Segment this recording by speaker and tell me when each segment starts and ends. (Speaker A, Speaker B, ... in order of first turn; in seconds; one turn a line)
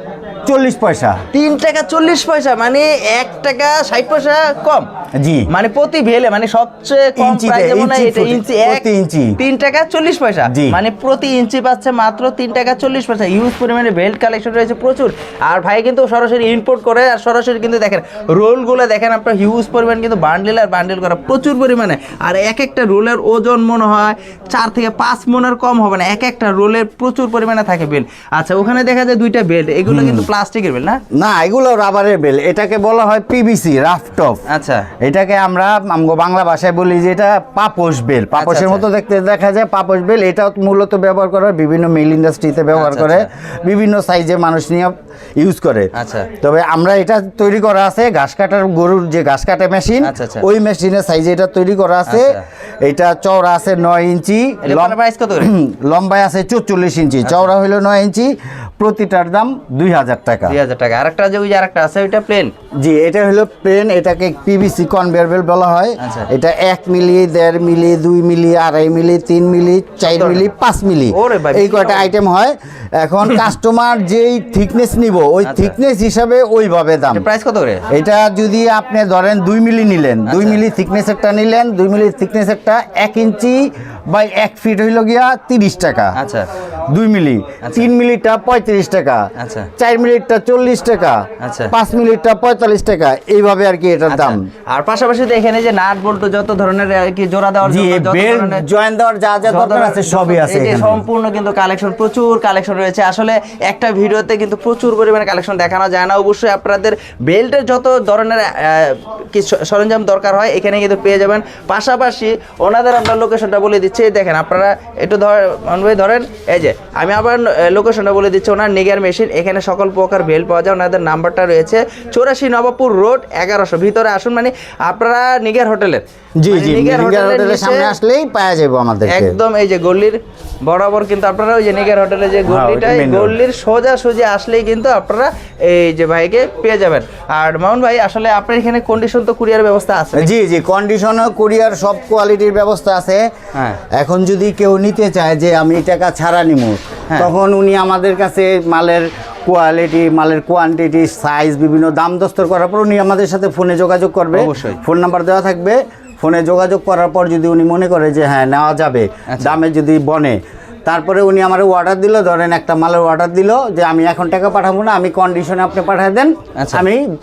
Speaker A: 0.5-1.2
Speaker B: 1.3-4.9
Speaker A: 5.2-5.5
Speaker B: 5.5-8.9
Speaker A: 7.2-9.4
Speaker B: 9.4-31.0
Speaker A: 10.5-10.8
Speaker A: 29.9-30.3
Speaker A: 31.1-34.4
Speaker B: 34.5-34.9
Speaker A: 35.0-60.6
Speaker B: 38.3-38.8
Speaker B: 42.7-43.3
Speaker B: 45.9-46.3
Speaker B: 50.0-50.5
Speaker B: 52.1-52.4
Speaker B: 54.6-55.5
Speaker B: 57.2-57.5
Speaker B: 60.5-62.5
Speaker A: 62.8-77.3
Speaker B: 66.0-66.3
Speaker B: 70.0-70.5
Speaker B: 71.1-72.1
Speaker B: 75.5-75.8
Speaker B: 77.1-77.8
Speaker A: 77.9-86.2
Speaker B: 80.3-80.6
Speaker B: 86.2-86.5
Speaker A: 86.9-94.5
Speaker B: 87.6-87.9
Speaker B: 89.4-89.7
Speaker B: 91.4-91.7
Speaker B: 94.1-98.6
Speaker A: 97.7-101.0
Speaker B: 99.5-128.0
Speaker A: 126.4-129.4
Speaker B: 129.1-140.3
Speaker A: 132.5-133.4
Speaker A: 140.1-143.2
Speaker B: 143.5-143.8
Speaker A: 144.0-167.0
Speaker B: 154.3-154.8
Speaker B: 159.3-159.6
Speaker B: 166.6-166.8